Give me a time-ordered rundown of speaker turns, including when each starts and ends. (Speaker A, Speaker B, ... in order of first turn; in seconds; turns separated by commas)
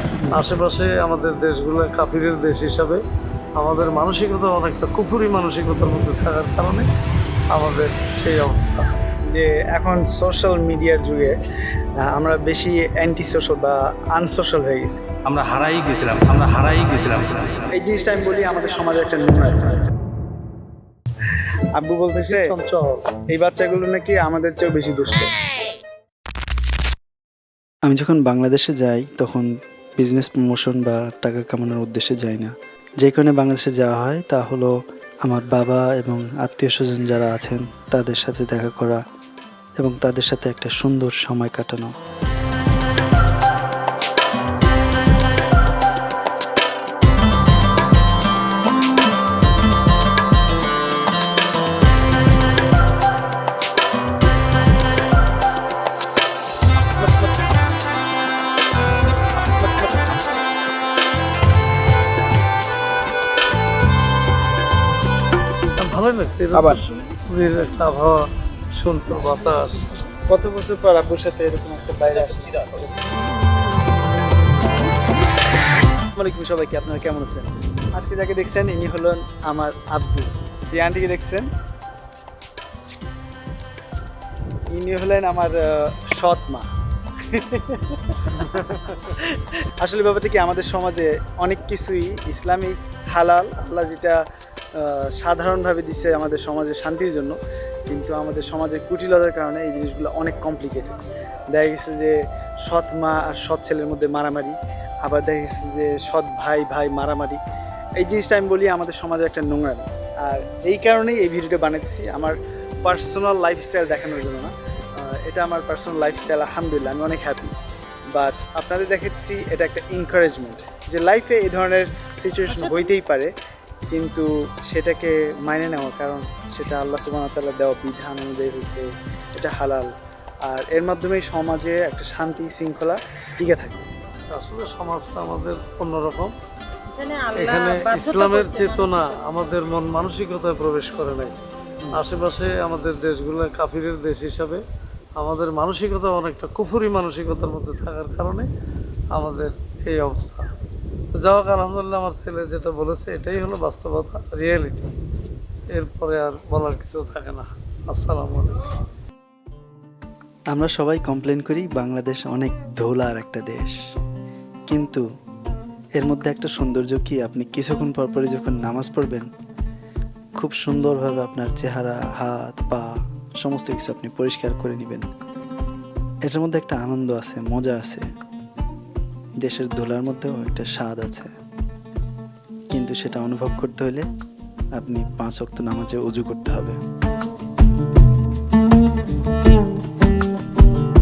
Speaker A: 0.3-3.0, Speaker A: 3.6-6.8, Speaker A: 7.5-8.9, Speaker B: 9.3-11.3, Speaker B: 12.0-15.1, Speaker C: 15.3-17.7, Speaker B: 17.7-19.8, Speaker B: 21.8-22.5, Speaker A: 22.1-23.0, Speaker B: 23.3-25.3, Speaker D: 27.9-34.7, Speaker D: 35.2-39.0, Speaker D: 39.8-41.9, Speaker A: 65.8-70.0, Speaker B: 66.5-66.8, Speaker B: 70.3-72.9, Speaker B: 76.1-81.5, Speaker B: 84.7-86.7, Speaker B: 87.2-94.2, Speaker B: 94.8-97.4, Speaker B: 97.9-101.0, Speaker B: 101.5-107.4, Speaker B: 108.0-117.5, Speaker B: 118.1-123.3, Speaker B: 123.9-129.9, Speaker B: 130.4-133.8, Speaker A: 134.3-136.3, Speaker E: 136.9-139.2, Speaker A: 137.3-141.4, Speaker A: 141.9-144.6, Speaker A: 145.2-148.5, Speaker A: 149.1-150.4, Speaker A: 151.1-154.9, Speaker A: 155.7-158.6, Speaker D: 160.5-163.8, Speaker D: 164.7-165.0, Speaker D: 166.0-169.3, Speaker D: 170.4-172.9, Speaker D: 173.4-175.1, Speaker D: 176.3-178.0, Speaker D: 179.4-181.3, Speaker D: 182.7-184.1, Speaker D: 184.8-186.8